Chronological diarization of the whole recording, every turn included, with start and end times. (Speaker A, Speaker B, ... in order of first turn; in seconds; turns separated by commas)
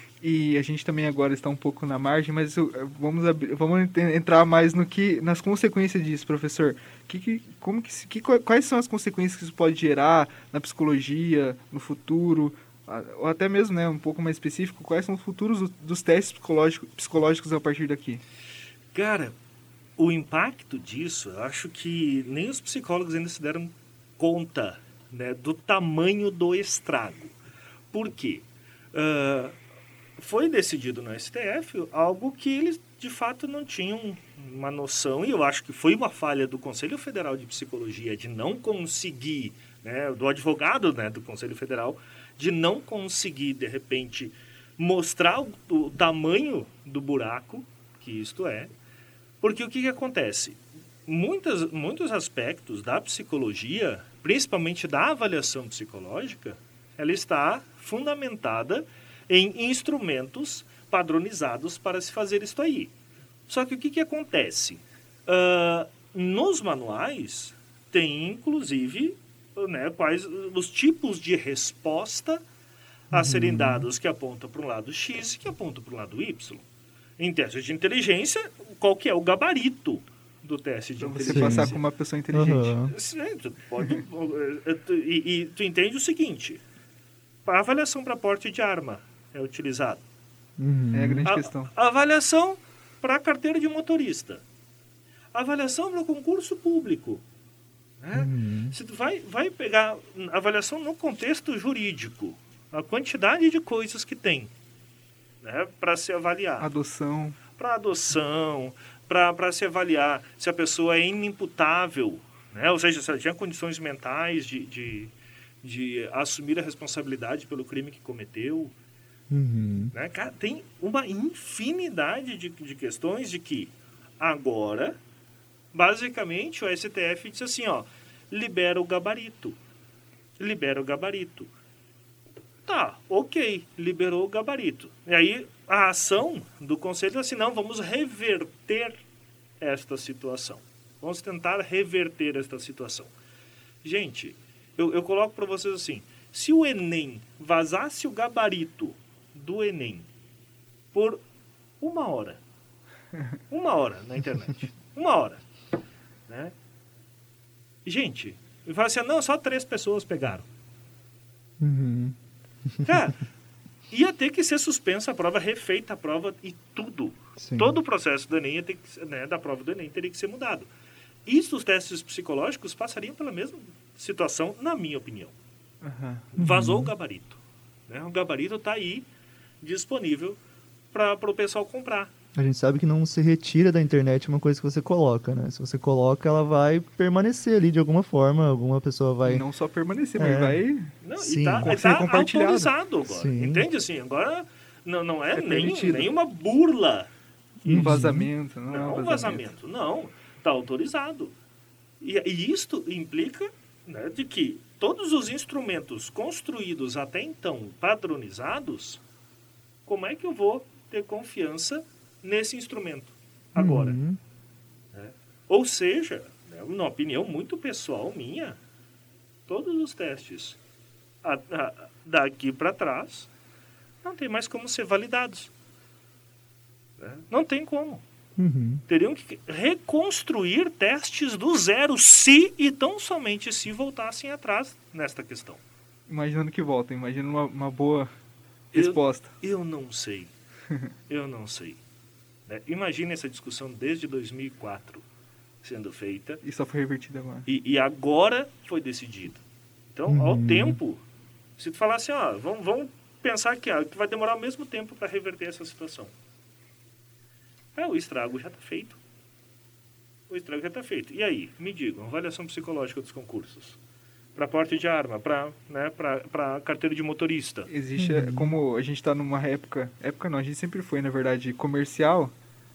Speaker A: 0.2-18.2, Speaker B: 18.9-19.4, Speaker B: 20.0-27.3, Speaker B: 27.9-29.6, Speaker B: 30.2-48.7, Speaker B: 49.4-62.9, Speaker B: 63.5-72.4, Speaker B: 73.1-76.6, Speaker C: 73.1-73.9, Speaker B: 77.2-81.8, Speaker A: 81.0-82.8, Speaker C: 81.3-81.7, Speaker C: 82.3-82.9, Speaker B: 82.9-86.6, Speaker B: 87.4-90.0, Speaker C: 90.6-91.3, Speaker A: 90.9-91.7, Speaker B: 91.2-94.4, Speaker B: 95.3-97.2, Speaker B: 98.0-104.5, Speaker C: 98.1-98.8, Speaker B: 105.4-106.7, Speaker A: 106.6-107.4, Speaker B: 107.6-118.7, Speaker C: 119.3-119.9, Speaker B: 119.9-125.0, Speaker B: 125.7-129.6, Speaker B: 130.4-131.5, Speaker B: 132.7-139.0, Speaker B: 139.6-143.1, Speaker B: 143.8-150.1, Speaker B: 150.9-151.2, Speaker B: 151.8-152.4, Speaker B: 153.5-155.4, Speaker B: 156.3-156.5, Speaker B: 157.8-160.4, Speaker C: 161.6-162.2, Speaker B: 162.8-163.2, Speaker B: 163.9-170.7, Speaker C: 167.4-167.7, Speaker B: 171.2-175.3, Speaker A: 175.8-176.3, Speaker B: 176.3-179.0, Speaker C: 176.4-176.9, Speaker B: 179.6-180.4, Speaker B: 180.9-182.1, Speaker C: 182.3-189.4, Speaker A: 189.2-190.9, Speaker C: 190.2-190.6, Speaker B: 191.0-197.1, Speaker C: 191.2-191.8, Speaker A: 191.6-192.7, Speaker C: 193.1-193.7, Speaker A: 195.3-196.1, Speaker A: 197.6-199.5, Speaker C: 197.6-198.3, Speaker B: 198.7-201.3, Speaker B: 202.0-209.0, Speaker B: 209.8-214.0, Speaker C: 213.6-214.2, Speaker B: 214.9-218.6, Speaker B: 219.5-220.6, Speaker B: 221.2-223.3, Speaker B: 224.0-225.5, Speaker B: 227.0-228.0, Speaker C: 228.4-228.8, Speaker B: 228.9-235.6, Speaker A: 236.1-238.1, Speaker A: 238.7-239.3, Speaker B: 238.7-240.3, Speaker B: 241.1-241.8, Speaker B: 242.5-245.0, Speaker B: 245.6-246.4, Speaker A: 246.4-247.5, Speaker B: 247.5-249.4, Speaker B: 249.9-251.0, Speaker C: 250.1-250.8, Speaker B: 251.6-256.1, Speaker B: 257.7-259.0, Speaker B: 260.3-263.8, Speaker B: 264.3-267.7, Speaker A: 267.7-272.3, Speaker C: 268.0-268.6